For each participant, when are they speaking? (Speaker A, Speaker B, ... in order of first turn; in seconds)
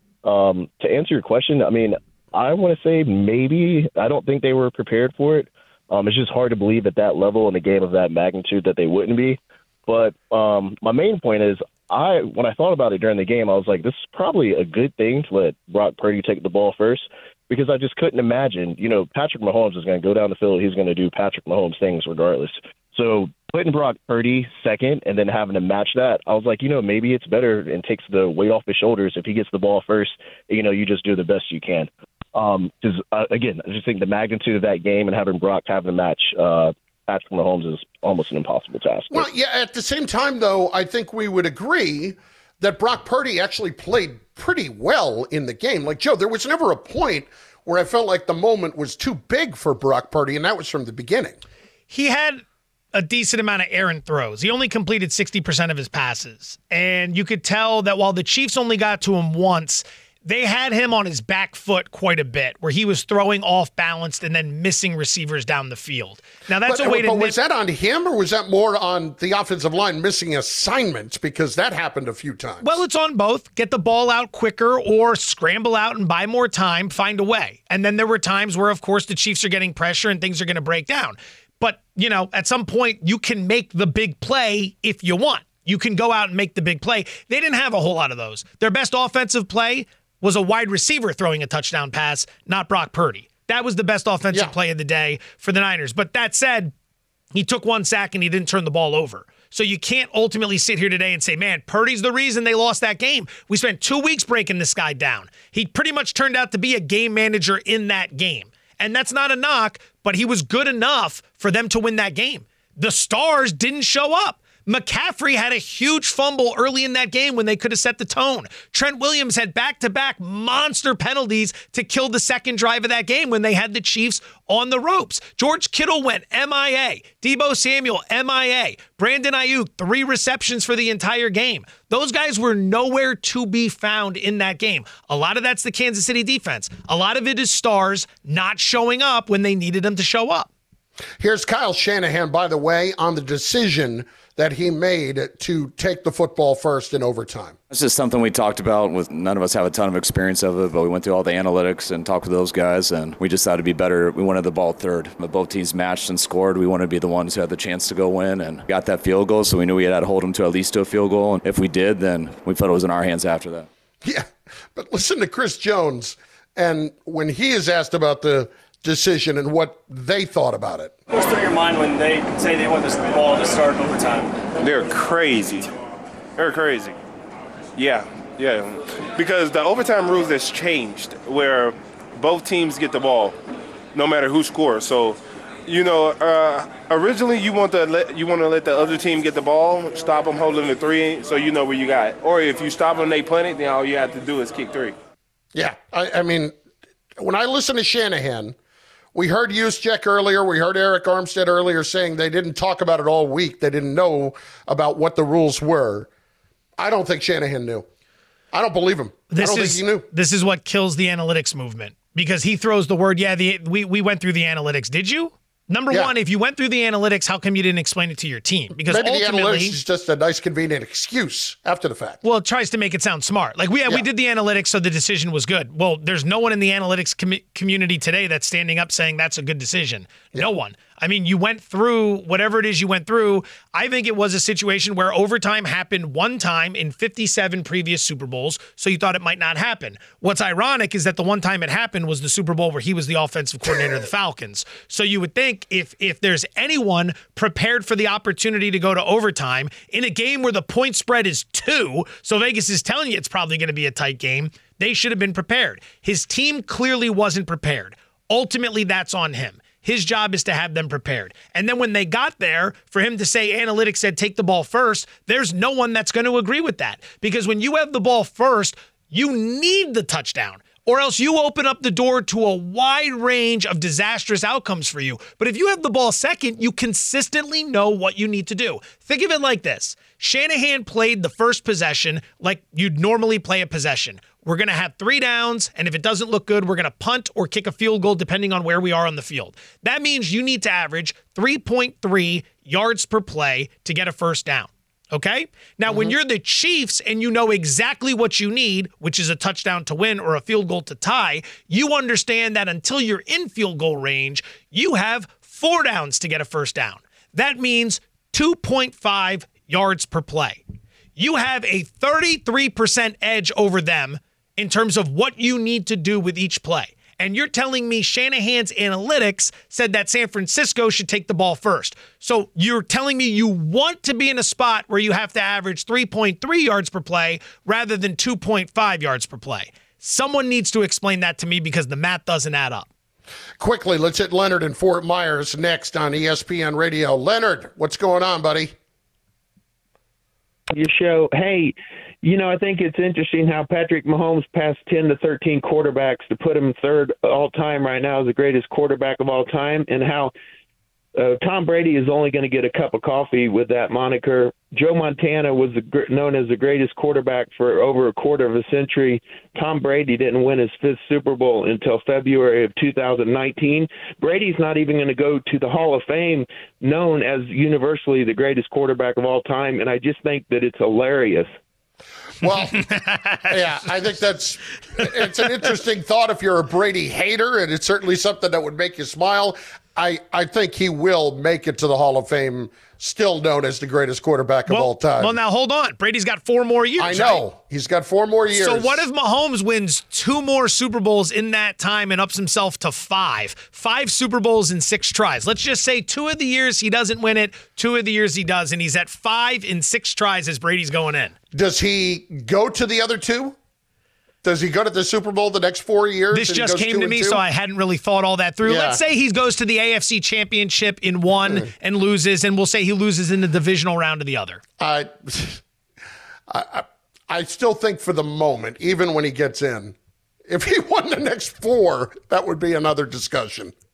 Speaker A: 0.2-39.2
Speaker B: 39.1-51.4, 66.7-72.8, 141.2-147.6, 164.0-170.9, 195.5-196.5, 197.2-198.5, 199.1-206.1, 206.8-207.8, 208.5-210.1, 218.9-222.2, 295.9-296.1, 333.6-338.7, 372.4-372.9, 373.5-385.4, 387.0-389.0, 401.5-403.6, 404.4-407.4, 408.6-409.0, 414.8-415.6, 416.5-419.9, 420.5-423.7
Speaker C: 51.9-52.4, 52.9-67.3, 72.6-96.7, 97.3-140.5, 209.3-219.8, 222.2-310.6, 311.1-332.9, 372.8-373.6, 384.7-387.4, 388.5-401.3, 406.3-414.6
Speaker D: 147.7-163.7
Speaker E: 171.1-174.4
Speaker F: 174.6-175.7, 176.4-177.0, 177.7-183.3, 183.9-194.9
Speaker G: 340.7-350.3, 351.1-371.5